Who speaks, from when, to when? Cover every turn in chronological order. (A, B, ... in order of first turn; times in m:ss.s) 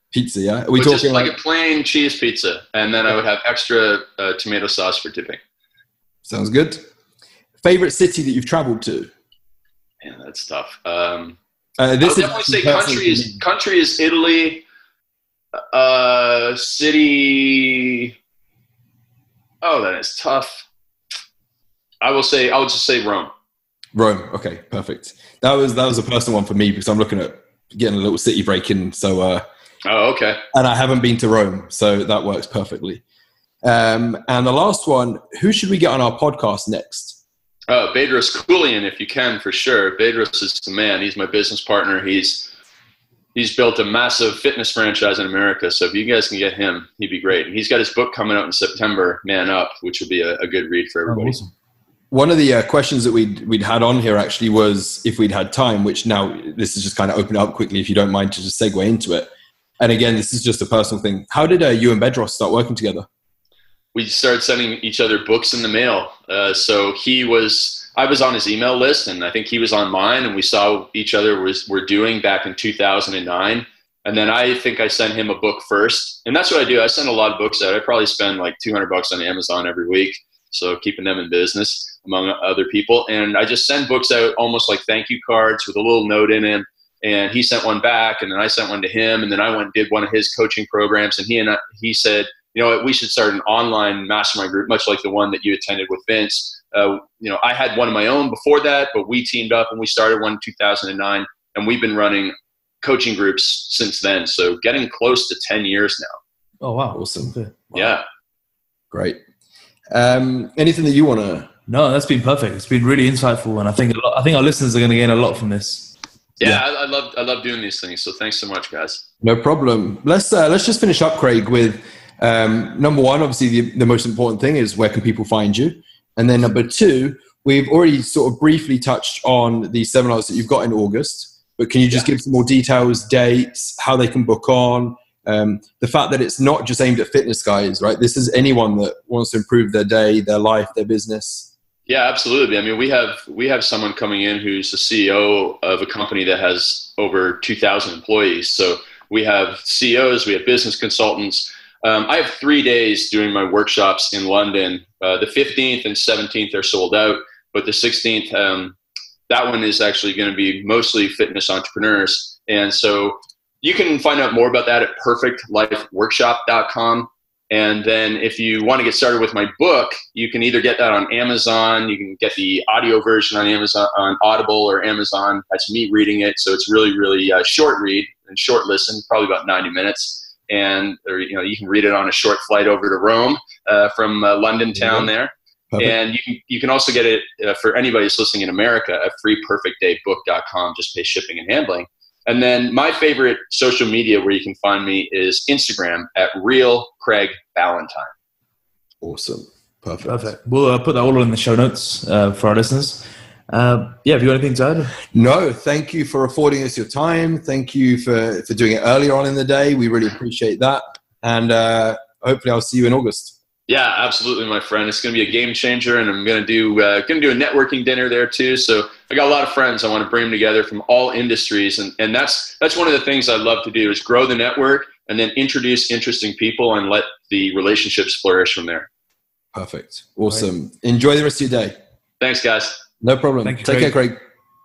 0:00.1-0:01.3 A
0:00.8-0:05.4 B
0:06.2-0:06.8 A
0:07.6-0:09.1 A
0:10.0-0:11.4 B
0:11.8-0:13.4 A
0:12.0-0:14.6 B
0:15.6-0:18.1 B
0:19.6-0:20.7 B
0:22.0-0:23.3 B
0:23.9-0:29.4 A
0:29.8-0:30.4 B
0:30.5-0:33.0 A
0:33.6-0:37.2 A
0:37.7-0:42.5 B
0:43.4-0:51.4 B
0:51.1-0:51.5 C
0:52.1-0:59.3 A
0:59.8-1:03.1 A
1:03.9-1:46.2 B
1:46.6-1:47.9 C
1:46.9-1:47.4 A
1:47.7-1:48.0 B
1:48.9-1:49.2 A
1:49.9-1:51.5 A
1:51.7-1:56.6 C
1:56.4-1:59.0 B
1:59.2-2:21.5 A
2:21.9-2:38.8 B
2:39.3-3:18.1 B
3:04.8-3:05.1 A
3:19.0-3:20.3 A
3:20.0-3:25.0 C
3:25.1-3:33.3 A
3:33.7-3:48.9 B
3:49.5-3:51.8 A
3:52.2-3:52.8 B
3:53.0-3:54.2 A
3:53.4-3:54.0 C